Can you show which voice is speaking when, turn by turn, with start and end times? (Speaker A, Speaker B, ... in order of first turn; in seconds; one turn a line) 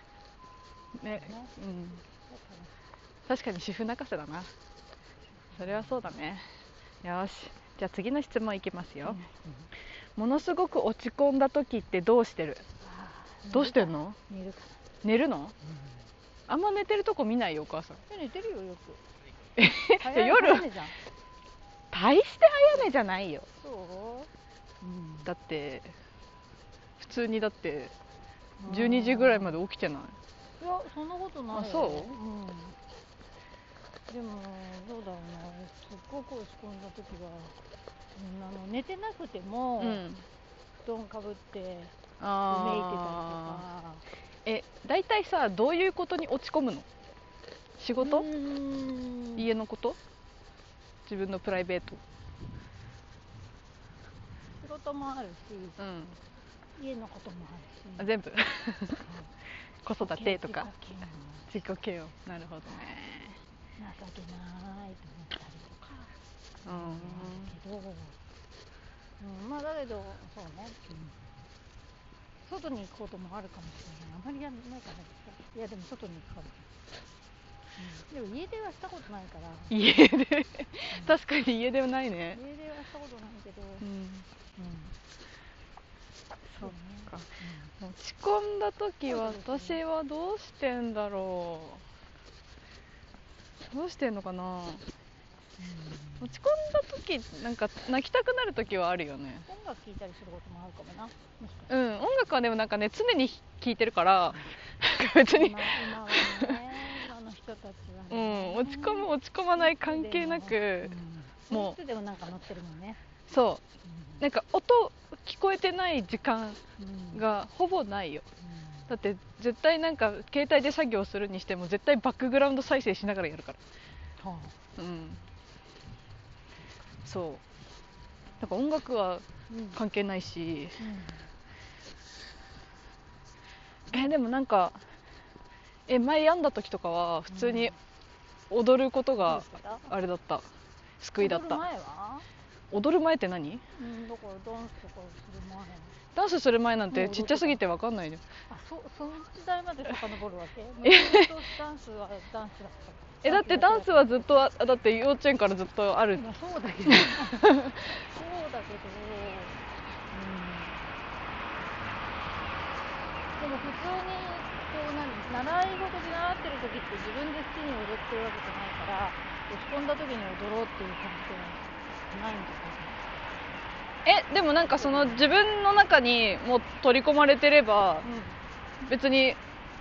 Speaker A: 1.0-2.0
Speaker B: 1.1-1.6
Speaker B: 2.3-2.7
Speaker A: 3.3-4.5
Speaker B: 5.5-6.1
Speaker A: 5.6-6.4
Speaker A: 7.0-9.2
Speaker B: 9.1-9.7
Speaker A: 10.2-12.6
Speaker B: 12.8-14.8
Speaker A: 13.5-14.2
Speaker A: 15.0-15.5
Speaker A: 16.5-18.0
Speaker B: 18.1-19.0
Speaker A: 19.6-20.6
Speaker B: 19.9-20.9
Speaker A: 21.9-23.5
Speaker B: 23.6-24.3
Speaker B: 24.8-25.3
Speaker A: 25.2-25.9
Speaker A: 27.0-27.9
Speaker B: 28.6-29.6
Speaker A: 28.7-30.2
Speaker B: 30.6-32.8
Speaker A: 31.5-32.1
Speaker B: 34.1-37.6
Speaker B: 38.2-40.0
Speaker A: 39.8-40.2
Speaker B: 40.8-42.0
Speaker A: 42.2-43.6
Speaker B: 42.5-44.0
Speaker A: 44.5-46.9
Speaker A: 47.8-48.3
Speaker B: 48.0-49.5
Speaker A: 49.4-50.0
Speaker A: 51.1-52.0
Speaker B: 54.6-55.8
Speaker A: 55.8-56.2
Speaker B: 56.8-58.1
Speaker A: 58.0-59.0
Speaker B: 59.0-59.3
Speaker A: 59.8-60.7
Speaker B: 60.0-61.6
Speaker A: 61.5-63.4
Speaker B: 63.8-66.1
Speaker B: 66.6-68.2
Speaker A: 66.7-67.5
Speaker B: 69.2-71.2
Speaker B: 72.5-76.7
Speaker B: 77.8-79.8
Speaker A: 79.7-82.4
Speaker B: 80.9-81.2
Speaker B: 82.3-83.8
Speaker A: 83.8-84.3
Speaker B: 84.6-84.9
Speaker A: 86.6-87.3
Speaker B: 86.6-87.7
Speaker A: 87.8-91.8
Speaker B: 89.1-89.8
Speaker A: 93.7-94.8
Speaker B: 95.6-96.3
Speaker A: 96.2-99.5
Speaker B: 99.5-101.7
Speaker A: 101.7-106.6
Speaker B: 105.3-113.0
Speaker A: 108.1-110.9
Speaker A: 111.5-111.8
Speaker A: 113.3-113.6
Speaker B: 113.8-114.2
Speaker A: 114.2-116.6
Speaker B: 116.8-117.2
Speaker A: 117.1-118.3
Speaker B: 118.4-118.9
Speaker A: 118.9-123.6
Speaker B: 124.2-124.5
Speaker A: 124.8-125.2
Speaker A: 127.0-127.4
Speaker A: 128.4-130.8
Speaker B: 129.5-129.8
Speaker B: 130.8-131.3
Speaker A: 133.9-134.8
Speaker A: 135.9-137.7
Speaker B: 137.3-137.8
Speaker A: 138.5-140.5
Speaker B: 139.2-139.9
Speaker A: 141.0-141.6
Speaker B: 141.2-142.2
Speaker A: 142.7-143.6
Speaker B: 143.8-146.0
Speaker A: 146.2-148.2
Speaker B: 146.9-147.6
Speaker B: 148.5-154.4
Speaker A: 150.8-151.3
Speaker A: 153.2-156.2
Speaker B: 156.1-159.6
Speaker A: 156.9-157.9
Speaker B: 160.1-160.8
Speaker B: 163.4-173.1
Speaker A: 174.1-178.1
Speaker B: 174.7-175.2
Speaker B: 178.0-178.4
Speaker A: 178.9-179.4